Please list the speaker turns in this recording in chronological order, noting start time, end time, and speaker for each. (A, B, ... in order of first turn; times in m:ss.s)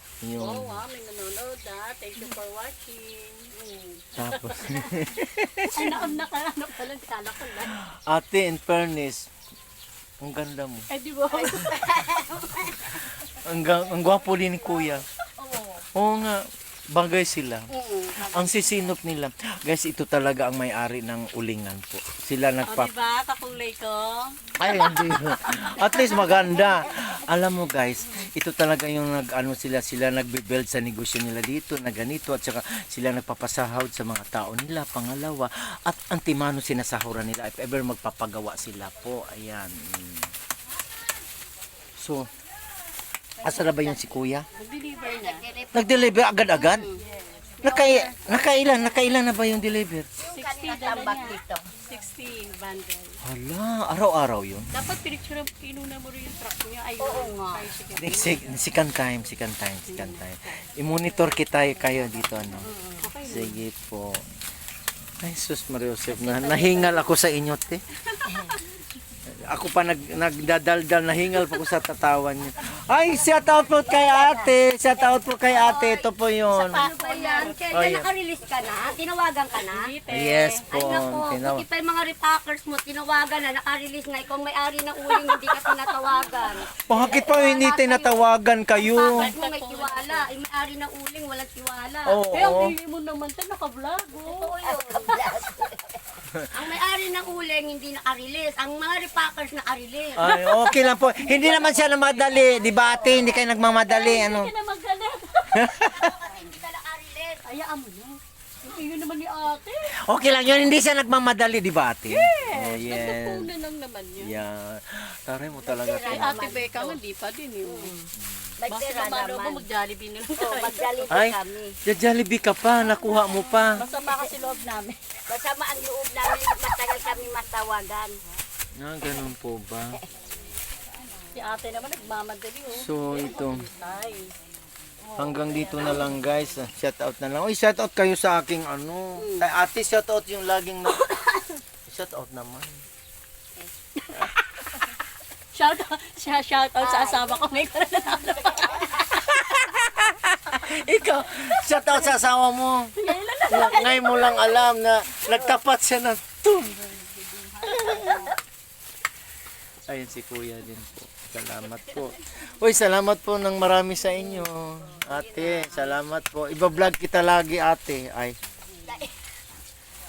0:00.2-0:00.8 A
0:00.4-0:03.5 B
0:03.5-0:04.0 C
0:04.2-0:06.1 A
0:04.2-0:05.0 B
0:05.6-0:07.8 B
0:07.6-0:09.3 A
0:10.2-0:10.9 A
0:10.9-0:12.1 B
0:11.3-0:13.0 C
0:12.9-0:15.0 A
0:15.4-0:15.8 C
0:16.0-0:22.9 A
0:17.7-0:18.8 C
0:22.6-0:24.9 B
0:24.6-0:40.3 A
0:26.0-0:27.1 C
0:42.0-0:42.3 A
0:43.4-0:44.2 C
0:43.4-0:44.5 A
0:44.5-0:45.4 B
0:45.0-0:47.0 C
0:45.7-0:46.9 A
0:47.2-0:48.5 B
0:47.6-0:50.1 A
0:50.2-0:51.7 C
0:50.3-0:53.2 B
0:53.2-0:54.7 A
0:54.7-0:58.6 B
0:57.0-0:57.6 C
0:58.0-1:02.7 A
0:59.9-1:00.2 B
1:00.8-1:03.6 B
1:02.6-1:03.1 C
1:03.3-1:04.2 A
1:05.2-1:07.8 A
1:06.2-1:07.0 B
1:08.1-1:08.5 B
1:09.3-1:16.9 A
1:13.2-1:19.9 C
1:16.6-1:17.6 B
1:17.6-1:18.1 A
1:19.7-1:20.6 B
1:20.1-1:21.6 A
1:20.7-1:32.2 C
1:26.8-1:29.3 A
1:29.0-1:30.3 B
1:32.1-1:32.7 A
1:32.3-1:35.0 B
1:34.2-1:36.0 C
1:36.5-1:40.4 C
1:40.2-1:44.5 A
1:41.2-1:43.5 C
1:43.9-1:45.7 B
1:45.5-1:46.1 A
1:45.8-1:47.4 C
1:47.4-1:49.9 B
1:49.9-1:53.5 A
1:52.1-1:54.4 B
1:54.2-1:56.5 A
1:55.6-1:57.0 C
1:56.0-1:58.0 B
1:57.6-1:59.7 C
1:58.2-1:58.5 A
1:58.7-2:01.2 B
2:00.4-2:01.8 C
2:01.1-2:03.8 A
2:03.8-2:05.0 B
2:03.8-2:04.3 C
2:05.3-2:08.1 C
2:08.8-2:10.0 A
2:11.3-2:14.3 B
2:12.7-2:13.7 A
2:15.0-2:16.2 C
2:15.2-2:21.1 A
2:19.2-2:19.5 C
2:21.0-2:21.4 C
2:21.9-2:22.8 A
2:25.5-2:29.0 B
2:26.8-2:29.0 C
2:29.1-2:33.0 A
2:33.0-2:34.6 B
2:33.5-2:36.8 A
2:37.0-2:38.3 B
2:37.7-2:38.2 A
2:39.9-2:48.4 A
2:44.1-2:46.0 C
2:48.8-2:49.1 C